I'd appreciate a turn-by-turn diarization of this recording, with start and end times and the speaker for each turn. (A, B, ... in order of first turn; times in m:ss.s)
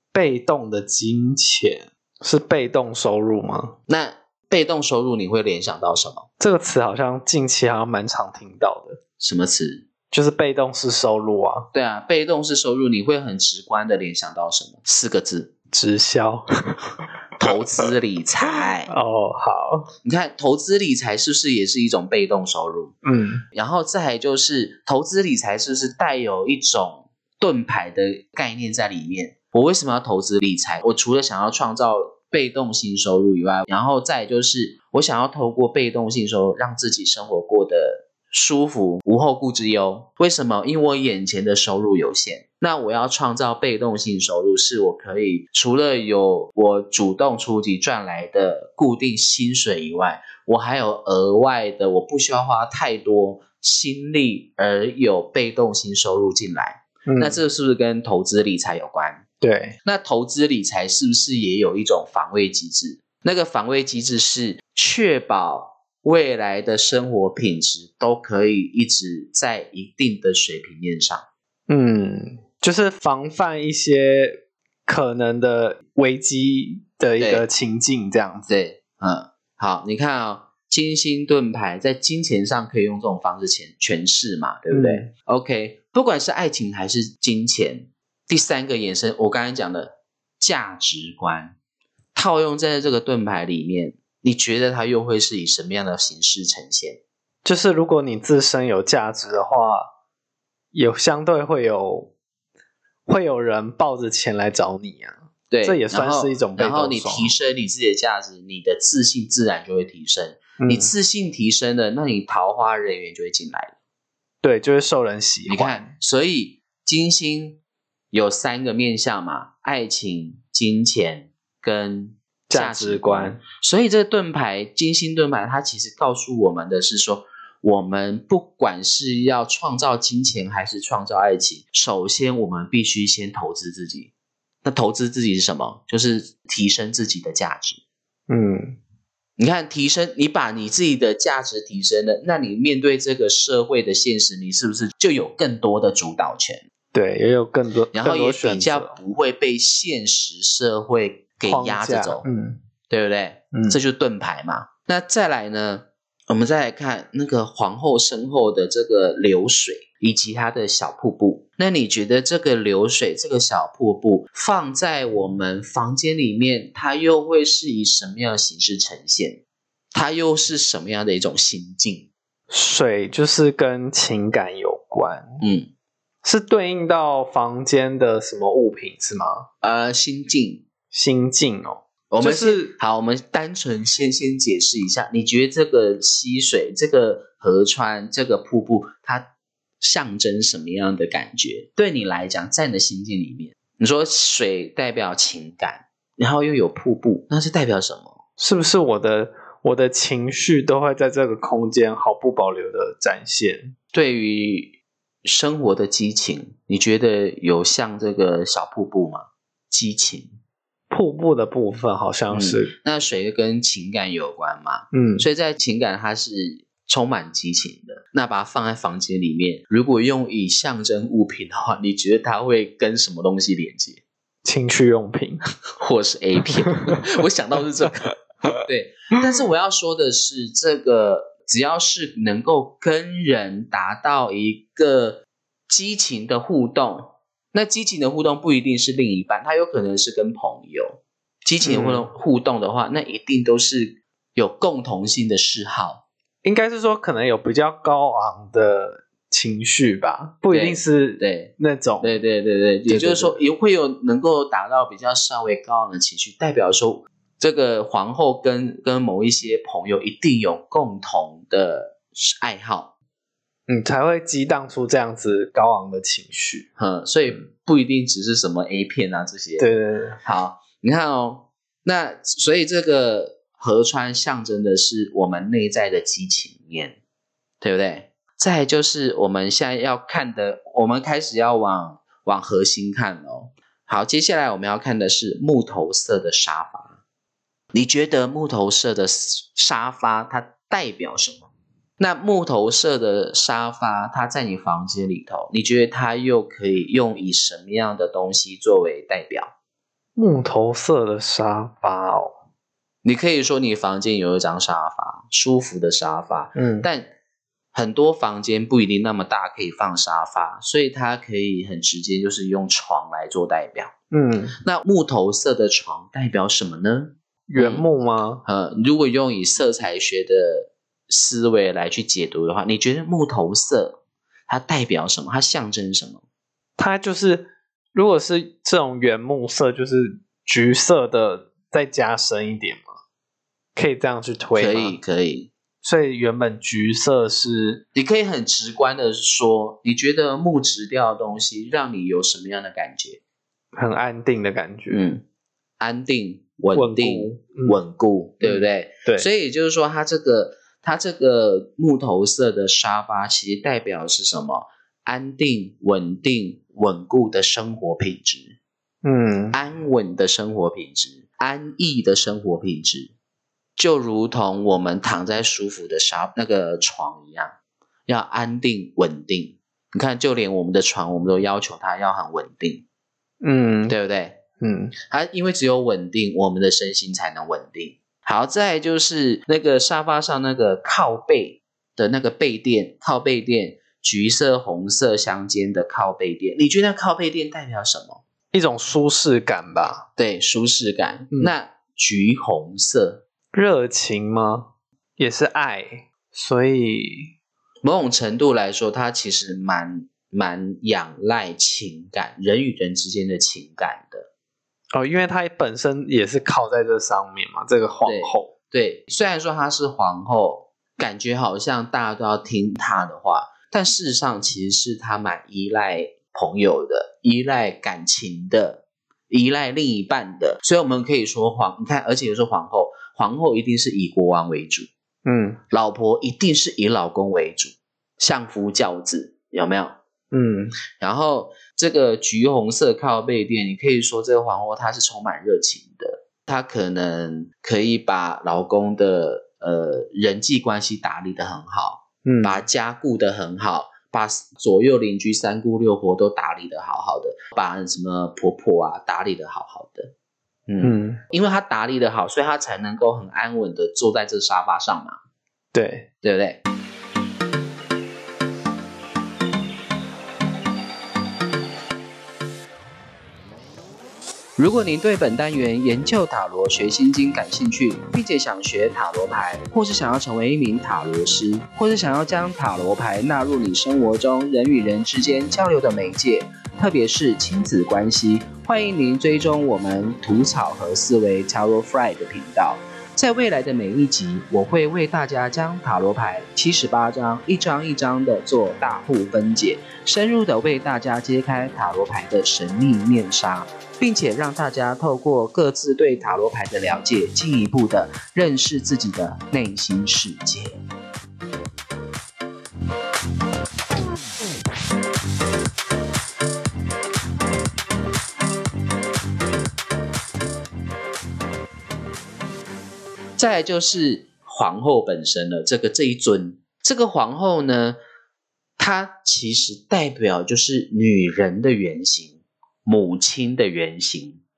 0:00.1-0:03.8 A
0:03.9-0:06.3 B
0:06.4-0:09.0 A
0:09.2-0:09.8 B
0:10.1-0:11.7 A
0:11.7-0:15.5 B
0:15.7-0:17.1 A
0:17.4-0:18.9 B
0:18.9-0:19.9 A
0:20.0-0:23.0 B
0:23.0-0:23.4 A
0:23.5-0:59.2 B
0:57.1-0:57.4 A
0:59.4-0:59.8 A
0:59.8-1:11.2 B
1:11.7-1:18.5 A
1:17.2-1:17.4 B
1:18.5-1:31.6 B
1:24.7-1:25.1 A
1:32.1-1:37.0 B
1:37.4-1:39.9 A
1:40.7-1:42.1 A
1:43.1-1:47.3 A
1:45.5-1:53.7 B
1:50.6-1:50.9 A
1:54.4-1:55.9 A
1:55.5-1:57.6 B
1:58.1-2:14.1 B
2:02.5-2:03.4 A
2:14.6-2:17.8 B
2:18.3-2:18.8 A
2:19.4-2:26.6 B
2:26.9-2:29.0 A
2:27.9-2:32.2 B
2:31.4-2:32.6 A
2:32.9-2:49.4 B
2:33.5-2:33.8 A
2:49.9-2:52.1 B
2:52.5-2:55.4 A
2:55.4-2:55.7 B
2:56.2-2:59.5 A
2:59.6-3:00.6 B
3:00.9-3:02.7 A
3:02.1-3:09.3 B
3:09.8-3:18.2 B
3:18.4-3:23.8 A
3:23.9-3:24.7 B
3:25.2-3:30.3 B
3:30.9-3:32.7 A
3:32.3-3:44.0 B
3:34.9-3:35.3 A
3:44.4-3:45.4 A
3:45.8-4:06.0 B
4:01.6-4:02.1 A
4:06.4-4:12.2 A
4:10.5-4:22.9 B
4:12.9-4:13.4 A
4:23.7-4:26.7 A
4:26.8-4:29.7 B
4:29.6-4:30.2 A
4:30.2-4:37.0 B
4:37.6-4:47.0 B
4:47.7-4:51.5 B
4:52.0-4:59.5 B
5:00.2-5:02.4 A
5:03.0-5:07.1 B
5:06.6-5:06.9 A
5:07.7-5:13.9 B
5:14.1-5:14.6 A
5:14.6-5:17.9 B
5:17.5-5:18.4 A
5:18.4-5:26.2 B
5:26.8-5:33.0 A
5:33.8-5:35.0 A
5:34.6-5:35.5 B
5:35.8-5:37.8 A
5:37.9-5:43.2 B
5:43.7-5:45.0 A
5:44.9-5:45.2 B
5:45.8-5:58.6 B
5:46.7-5:47.8 A
5:48.4-5:49.3 A
5:59.0-5:59.6 A
5:59.5-6:03.1 B
6:03.8-6:07.5 B
6:08.1-6:12.8 B
6:13.4-6:14.0 A
6:13.9-6:14.4 B
6:14.6-6:15.0 A
6:15.1-6:28.2 B
6:28.5-6:30.0 A
6:30.2-6:33.2 B
6:33.5-6:37.3 A
6:37.8-6:44.3 B
6:44.9-6:48.5 A
6:48.0-7:04.9 B
7:05.2-7:05.6 A
7:05.7-7:10.0 B
7:10.3-7:10.7 A
7:11.0-7:30.1 B
7:22.2-7:22.6 A
7:30.7-7:35.2 B
7:30.8-7:31.2 A
7:35.7-7:36.1 A
7:36.2-7:36.6 B
7:44.6-8:20.8 B
8:33.4-8:38.0 B
8:38.8-8:44.4 B